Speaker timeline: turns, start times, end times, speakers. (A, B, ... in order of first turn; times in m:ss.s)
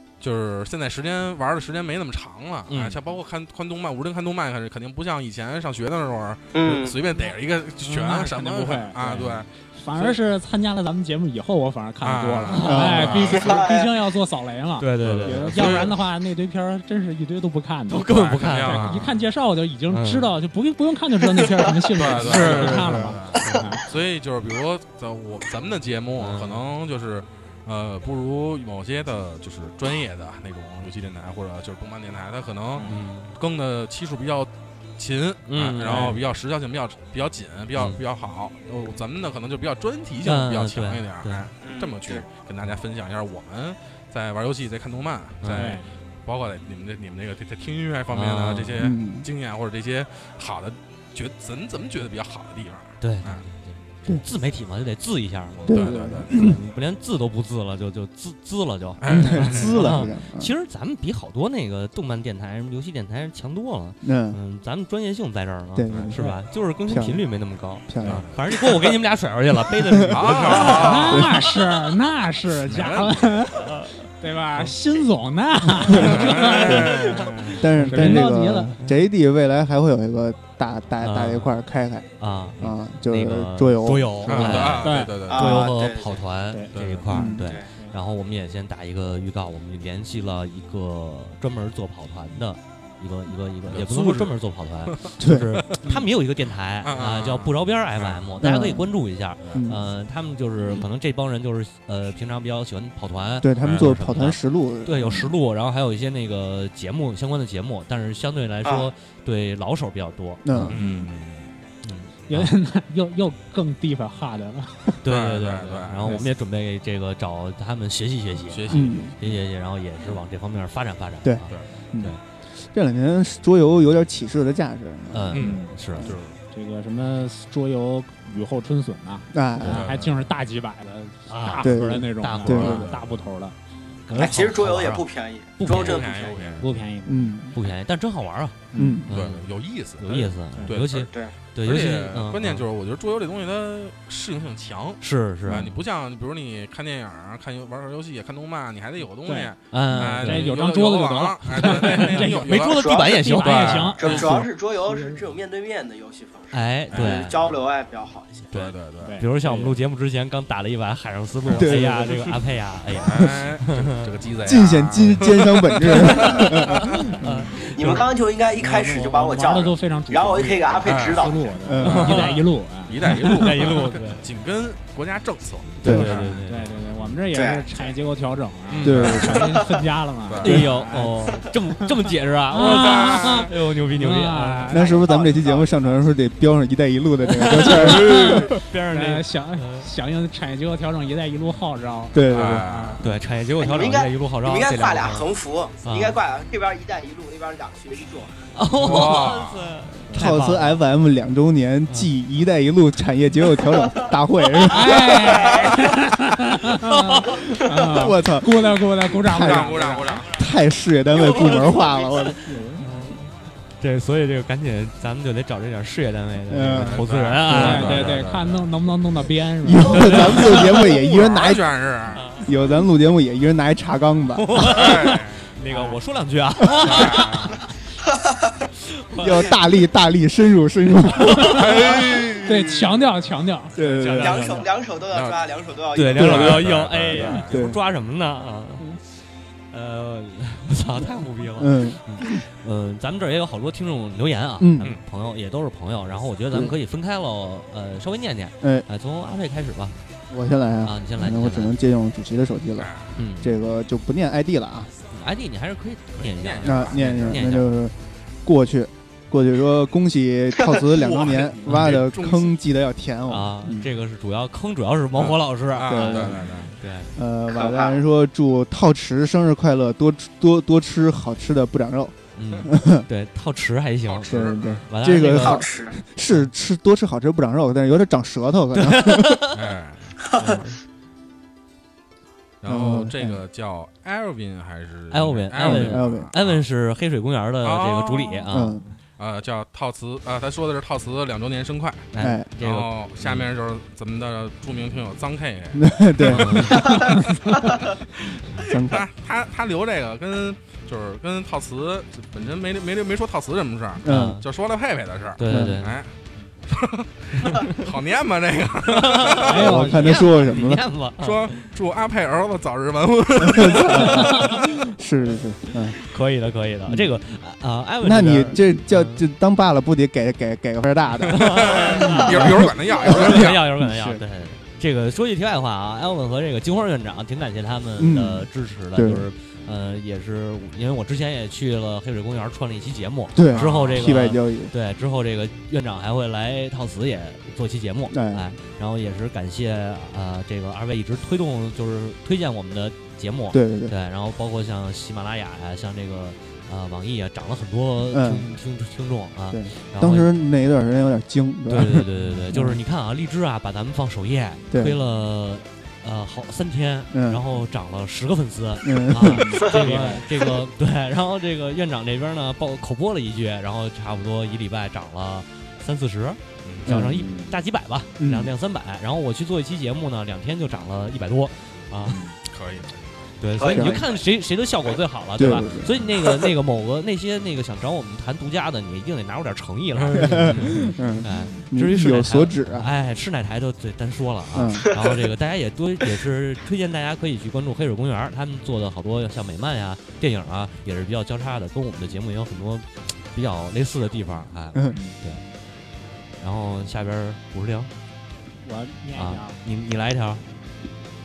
0:00.2-0:10.2 A
0:02.7-0:03.0 B
0:06.5-0:07.0 C
0:07.8-0:23.9 D
0:12.0-0:13.6 A
0:12.5-0:13.4 B
0:12.6-0:13.1 E
0:13.2-0:14.0 C
0:14.8-0:15.9 B
0:15.0-0:16.0 A
0:17.9-0:19.1 B
0:18.1-0:19.2 A
0:19.9-0:20.3 B
0:21.4-0:21.8 C
0:21.9-0:53.5 A
0:22.1-0:23.8 B
0:26.2-0:26.7 B
0:32.8-0:33.4 B
0:35.5-0:36.2 B
0:35.9-0:36.2 D
0:37.8-0:38.0 B
0:40.2-0:41.5 B
0:41.6-0:42.3 C
0:45.4-0:45.8 B
0:45.5-0:45.9 D
0:48.1-0:48.8 B
0:48.8-0:49.3 E
0:53.0-1:11.0 B
0:55.7-0:56.5 A
0:55.7-0:56.6 E
0:59.0-1:00.0 A
0:59.1-1:00.5 E
1:04.0-1:04.4 E
1:05.8-1:06.3 E
1:05.9-1:06.2 A
1:06.9-1:07.2 E
1:07.9-1:08.3 E
1:08.0-1:08.4 A
1:09.9-1:10.3 E
1:10.1-1:11.8 A
1:10.3-1:18.8 D
1:11.1-1:11.4 E
1:12.6-1:13.5 A
1:13.6-1:13.9 B
1:15.9-1:17.5 A
1:15.9-1:24.7 E
1:17.9-1:18.2 B
1:21.0-1:21.6 B
1:22.2-1:50.8 B
1:24.3-1:25.7 A
1:24.8-1:25.3 D
1:25.3-1:26.2 C
1:26.7-1:27.0 A
1:27.1-1:27.5 E
1:27.4-1:27.7 C
1:33.7-1:34.4 A
1:35.2-1:35.6 E
1:36.8-1:38.3 A
1:38.4-1:38.9 E
1:39.5-1:39.8 E
1:43.4-1:45.3 E
1:43.6-1:43.9 A
1:48.6-1:48.9 C
1:50.4-1:51.0 E
1:50.7-1:51.6 A
1:51.8-1:52.5 B
1:52.3-1:54.9 D
1:55.0-2:02.2 B
1:55.0-1:56.3 A
1:58.5-1:59.1 A
1:58.7-1:59.2 E
2:01.2-2:05.3 E
2:05.1-2:06.2 B
2:05.3-2:06.4 A
2:05.4-2:05.8 D
2:06.5-2:13.6 D
2:09.3-2:09.9 E
2:09.6-2:10.1 A
2:11.3-2:13.0 B
2:11.6-2:12.9 E
2:12.4-2:13.1 A
2:14.1-2:15.0 B
2:14.1-2:16.6 C
2:15.6-2:16.7 B
2:15.6-2:16.6 A
2:16.6-2:17.3 D
2:17.0-2:17.6 E
2:17.5-2:19.5 B
2:18.7-2:19.0 D
2:18.8-2:19.1 E
2:19.1-2:32.9 A
2:20.0-2:22.6 B
2:20.9-2:21.3 C
2:25.0-2:25.7 B
2:29.2-2:35.2 D
2:29.7-2:30.5 B
2:31.5-2:34.3 B
2:32.7-2:33.2 C
2:33.4-2:34.2 A
2:34.0-2:38.5 C
2:36.5-2:37.4 B
2:36.9-2:37.3 A
2:38.5-2:39.2 A
2:38.5-2:44.1 B
2:39.0-2:39.8 D
2:41.5-2:42.4 E
2:43.0-2:46.8 A
2:43.1-2:43.4 E
2:44.4-2:47.5 E
2:45.9-2:48.1 B
2:47.7-2:51.5 C
2:48.6-2:53.6 D
2:50.8-2:51.3 A
2:51.6-2:52.3 E
2:51.8-2:52.4 B
2:51.8-2:56.4 A
2:53.1-2:54.2 B
2:55.8-2:57.2 B
2:55.8-2:56.1 E
2:55.8-3:05.6 D
2:57.3-2:57.9 C
2:58.7-2:59.6 A
2:58.8-2:59.3 E
2:59.3-2:59.9 C
3:00.3-3:00.6 A
3:00.4-3:04.8 B
3:00.4-3:00.8 E
3:02.8-3:03.5 A
3:04.7-3:08.6 E
3:04.8-3:06.0 C
3:07.3-3:09.9 B
3:07.5-3:13.1 D
3:12.1-3:12.8 E
3:12.3-3:13.0 A
3:13.0-3:15.3 B
3:13.6-3:18.4 C
3:15.8-3:16.2 B
3:18.5-3:20.8 B
3:18.8-3:19.7 A
3:19.0-3:19.2 E
3:20.1-3:25.3 E
3:21.9-3:22.1 B
3:23.7-3:24.1 C
3:24.7-3:30.3 D
3:25.2-3:25.9 C
3:26.8-3:27.4 B
3:27.9-3:32.4 E
3:29.2-3:30.4 A
3:31.1-3:32.3 C
3:32.4-3:32.9 D
3:32.8-3:38.2 B
3:36.5-3:38.0 E
3:36.7-3:38.7 A
3:37.5-3:40.4 D
3:39.6-3:41.6 E
3:39.8-3:40.7 B
3:40.1-3:42.2 A
3:42.1-3:42.5 B
3:42.4-3:44.5 E
3:44.4-3:47.6 B
3:44.6-3:45.5 A
3:45.7-3:46.0 D
3:46.7-3:47.6 A
3:48.1-3:48.6 C
3:48.9-3:49.5 B
3:49.2-3:52.0 E
3:51.2-3:51.9 D
3:51.3-3:52.8 A
3:52.4-3:53.8 D
3:53.8-3:54.5 E
3:53.8-3:54.7 B
3:54.2-3:56.6 C
3:55.1-3:55.4 A
3:55.9-3:59.0 B
3:56.1-3:57.5 A
3:56.2-3:56.6 E
3:57.2-3:57.8 E
3:59.7-4:10.0 B
4:01.6-4:02.4 E
4:04.6-4:04.9 E
4:10.3-4:14.9 E
4:10.8-4:11.8 B
4:12.8-4:13.1 A
4:13.2-4:13.6 B
4:15.1-4:17.7 B
4:16.2-4:17.4 A
4:16.6-4:23.9 E
4:20.9-4:22.6 A
4:21.7-4:22.0 B
4:23.3-4:27.1 B
4:25.1-4:26.7 A
4:25.8-4:26.5 E
4:27.2-4:33.1 E
4:27.5-4:28.0 C
4:32.4-4:35.7 B
4:34.1-4:34.9 A
4:34.3-4:39.6 E
4:35.3-4:36.0 C
4:38.8-4:39.6 B
4:39.5-4:40.2 A
4:40.3-4:40.6 C
4:40.4-4:40.8 B
4:42.6-4:46.6 A
4:42.7-4:43.4 E
4:45.1-4:48.8 B
4:45.6-4:46.3 E
4:47.6-4:48.5 A
4:48.5-4:48.8 E
4:49.2-4:57.2 A
4:52.1-4:53.5 B
4:52.2-4:52.5 E
4:55.8-4:57.2 E
4:56.3-4:57.0 B
4:56.8-4:57.5 D
4:58.6-4:59.1 E
4:58.7-5:06.2 A
5:04.0-5:04.4 E
5:04.0-5:04.4 B
5:05.4-5:06.0 B
5:05.4-5:05.8 E
5:06.7-5:09.7 A
5:07.4-5:07.9 B
5:08.9-5:11.7 B
5:09.4-5:10.2 D
5:09.6-5:10.9 E
5:11.2-5:14.8 A
5:13.4-5:16.0 E
5:15.9-5:19.3 B
5:18.0-5:24.2 E
5:21.3-5:50.3 B
5:21.3-5:23.7 A
5:28.0-5:29.3 E
5:33.4-5:34.7 E
5:33.5-5:34.0 A
5:38.1-5:38.4 E
5:43.5-5:43.9 E
5:48.1-5:48.5 E
5:49.5-5:52.8 E
5:51.7-6:12.3 B
5:57.1-5:57.4 E
5:58.8-5:59.6 E
5:59.5-6:00.3 D
5:59.6-6:00.3 C
6:06.6-6:07.0 A
6:06.9-6:07.2 E
6:07.0-6:07.6 D
6:08.2-6:08.5 E
6:12.0-6:12.4 D
6:12.5-6:13.3 A
6:13.4-6:35.4 B
6:13.6-6:14.2 C
6:13.7-6:14.0 E
6:15.4-6:15.9 E
6:20.0-6:20.8 A
6:20.2-6:22.9 E
6:24.5-6:25.0 E
6:34.8-6:35.0 E
6:34.9-6:35.2 D
6:36.4-6:37.9 B
6:38.6-6:39.6 D
6:39.1-6:40.4 B